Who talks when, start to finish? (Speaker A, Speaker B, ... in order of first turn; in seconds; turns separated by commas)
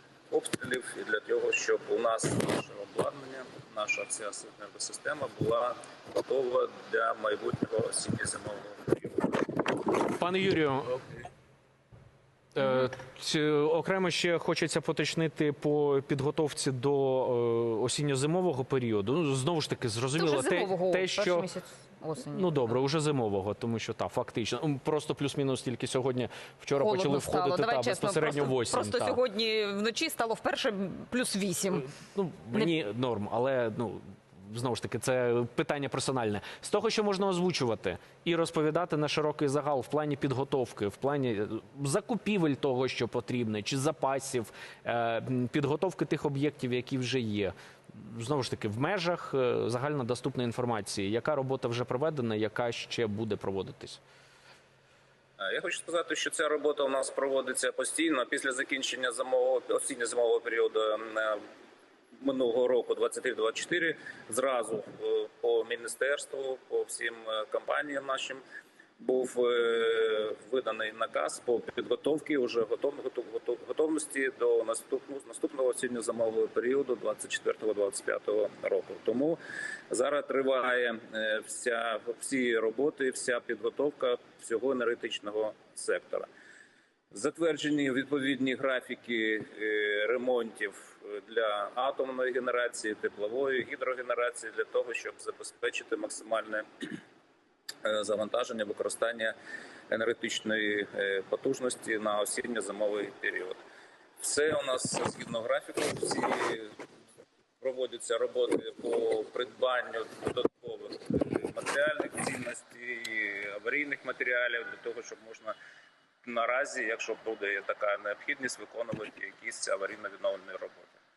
Speaker A: 0.3-9.7, Speaker B: 10.0-11.1, Speaker B: 12.6-21.5, Speaker C: 20.2-22.7, Speaker B: 22.3-29.2, Speaker C: 26.8-31.9, Speaker B: 31.9-54.0, Speaker A: 55.4-61.4, Speaker A: 62.2-68.4, Speaker A: 69.0-79.4, Speaker A: 79.9-86.3, Speaker A: 87.1-96.9, Speaker A: 97.8-99.3, Speaker A: 99.9-103.6, Speaker A: 104.2-106.8, Speaker A: 107.6-115.5, Speaker A: 116.2-121.0